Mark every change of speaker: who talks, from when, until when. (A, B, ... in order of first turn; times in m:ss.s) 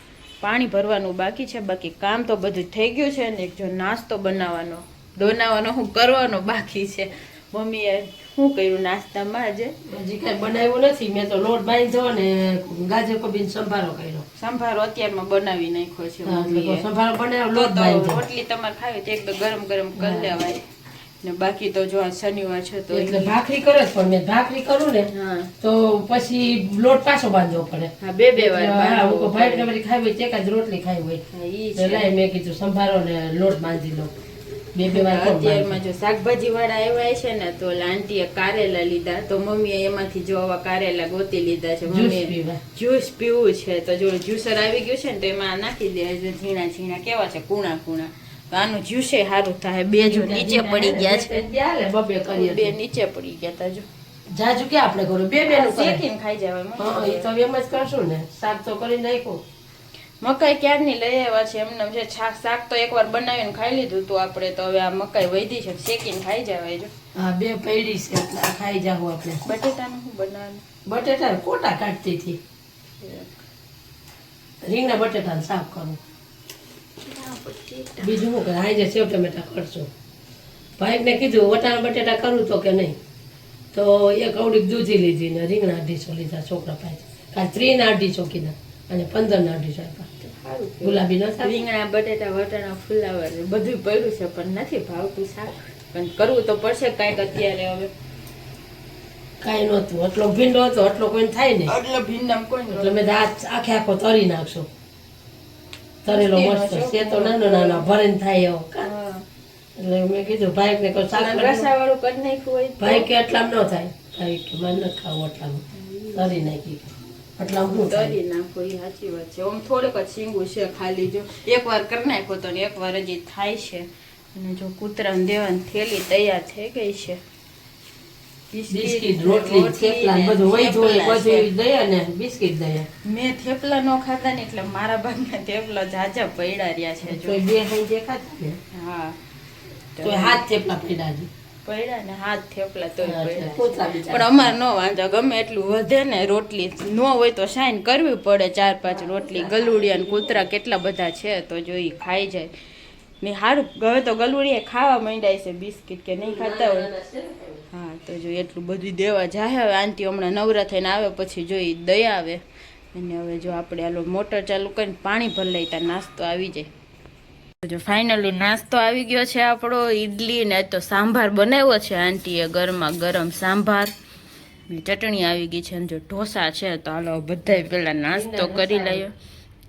0:00.4-0:09.7 A
0:09.9-0:14.2 B
0:14.4-0:16.9 A
0:16.2-0:18.2 B
0:17.5-0:20.6 A
0:20.0-0:20.3 B
0:21.2-0:23.3 A
0:22.9-0:25.1 B
0:25.1-0:25.5 A
0:25.6-0:31.2 B
0:28.0-0:29.7 A
0:31.3-0:32.1 A
0:31.8-0:34.2 B
0:34.7-0:35.8 B
0:34.8-0:51.5 A
0:41.9-0:42.6 B
0:50.0-0:52.7 B
0:52.3-0:53.8 A
0:54.3-0:56.0 B
0:55.5-0:57.3 A
0:56.8-0:59.4 B
1:00.2-1:06.9 A
1:07.2-1:09.4 B
1:09.4-1:10.6 A
1:10.9-1:12.4 B
1:13.0-1:13.4 A
1:14.6-1:16.0 B
1:17.0-1:18.2 A
1:18.0-1:19.9 B
1:20.8-1:23.0 B
1:23.7-1:30.1 B
1:30.2-1:37.9 A
1:30.8-1:31.6 B
1:39.4-1:41.7 B
1:41.7-1:43.0 A
1:42.7-1:44.7 B
1:46.0-1:48.9 B
1:46.1-1:47.8 A
1:48.8-1:49.3 A
1:49.8-1:51.7 B
1:51.1-1:53.1 A
1:52.8-1:58.2 B
1:55.7-1:56.5 A
1:57.6-2:07.2 A
2:08.5-2:11.5 A
2:08.7-2:12.9 B
2:13.0-2:17.4 A
2:17.0-2:18.6 B
2:18.7-2:19.2 A
2:20.0-2:20.4 A
2:20.0-2:21.3 B
2:21.6-2:32.5 A
2:23.0-2:24.5 B
2:28.8-2:30.4 B
2:33.2-2:36.9 A
2:36.2-2:37.6 B
2:37.7-2:42.4 A
2:42.9-2:46.7 A
2:47.6-2:53.9 A
2:54.7-2:59.1 A
2:58.1-2:59.0 B